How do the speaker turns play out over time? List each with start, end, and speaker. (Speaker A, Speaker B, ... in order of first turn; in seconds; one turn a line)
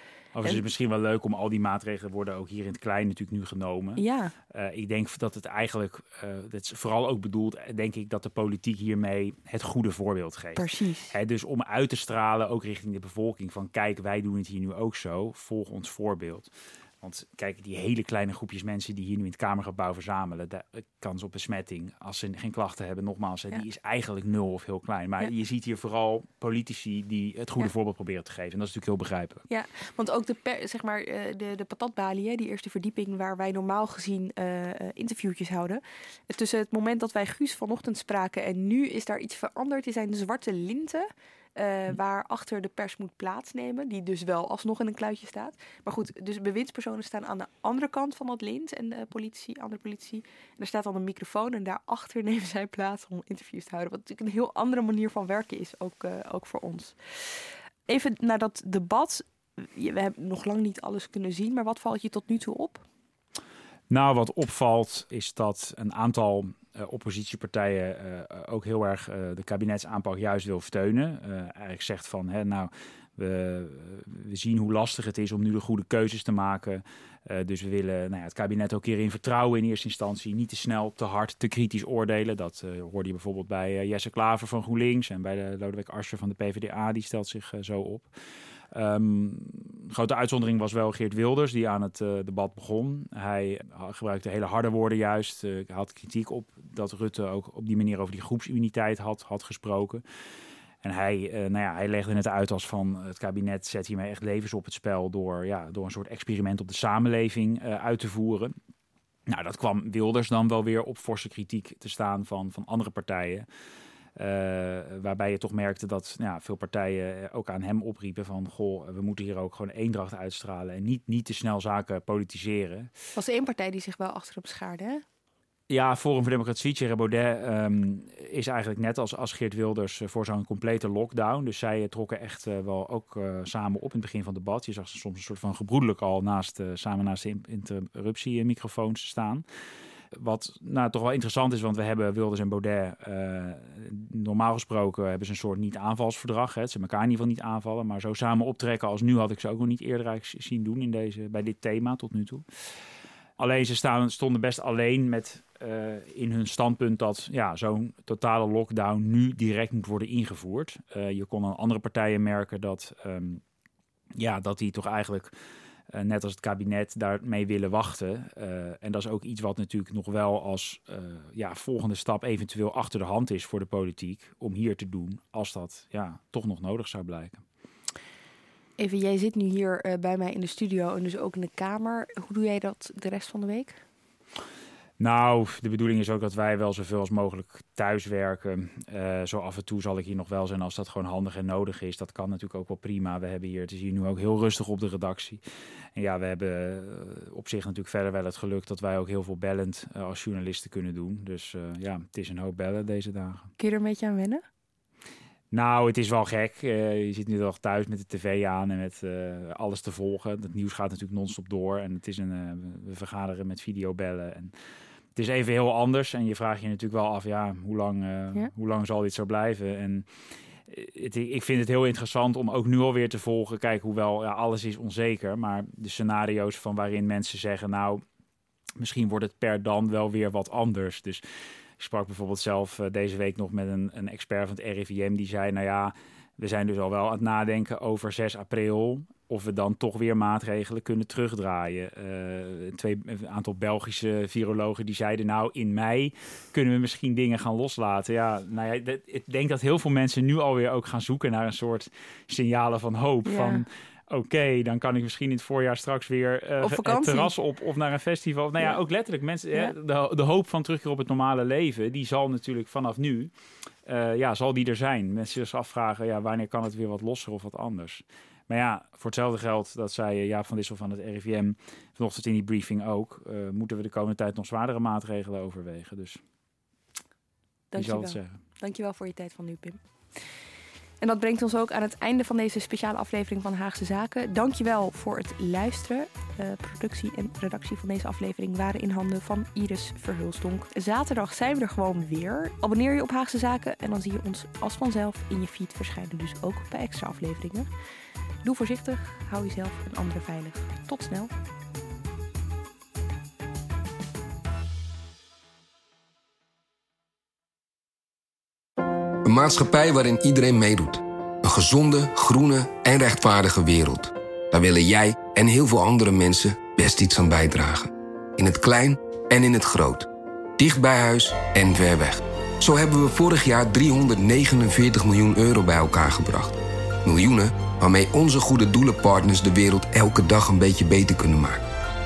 Speaker A: 0.3-16.5
Speaker B: 4.0-4.3
Speaker B: 10.6-11.1
Speaker A: 17.0-29.4
Speaker B: 29.5-62.8
Speaker A: 63.9-88.1
Speaker A: 88.7-100.0
Speaker A: 100.8-108.5
Speaker A: 109.3-113.5
Speaker A: 114.2-122.9
Speaker B: 123.2-125.0
Speaker A: 125.7-139.4
Speaker A: 140.1-152.4
Speaker A: 153.4-163.4
Speaker A: 164.2-165.3
Speaker A: 165.9-177.4
Speaker B: 178.8-183.8
Speaker A: 185.0-195.4
Speaker A: 195.9-203.5
Speaker B: 203.6-204.4
Speaker A: 205.5-214.5
Speaker A: 215.2-220.1
Speaker A: 220.7-228.0
Speaker A: 228.8-231.2
Speaker A: 231.8-263.3
Speaker B: 253.2-253.7
Speaker B: 256.6-257.3
Speaker A: 263.9-276.2
Speaker B: 277.7-279.8
Speaker A: 277.8-278.4
Speaker B: 281.0-297.7
Speaker B: 298.4-301.3
Speaker C: 309.2-320.1
Speaker C: 320.6-331.6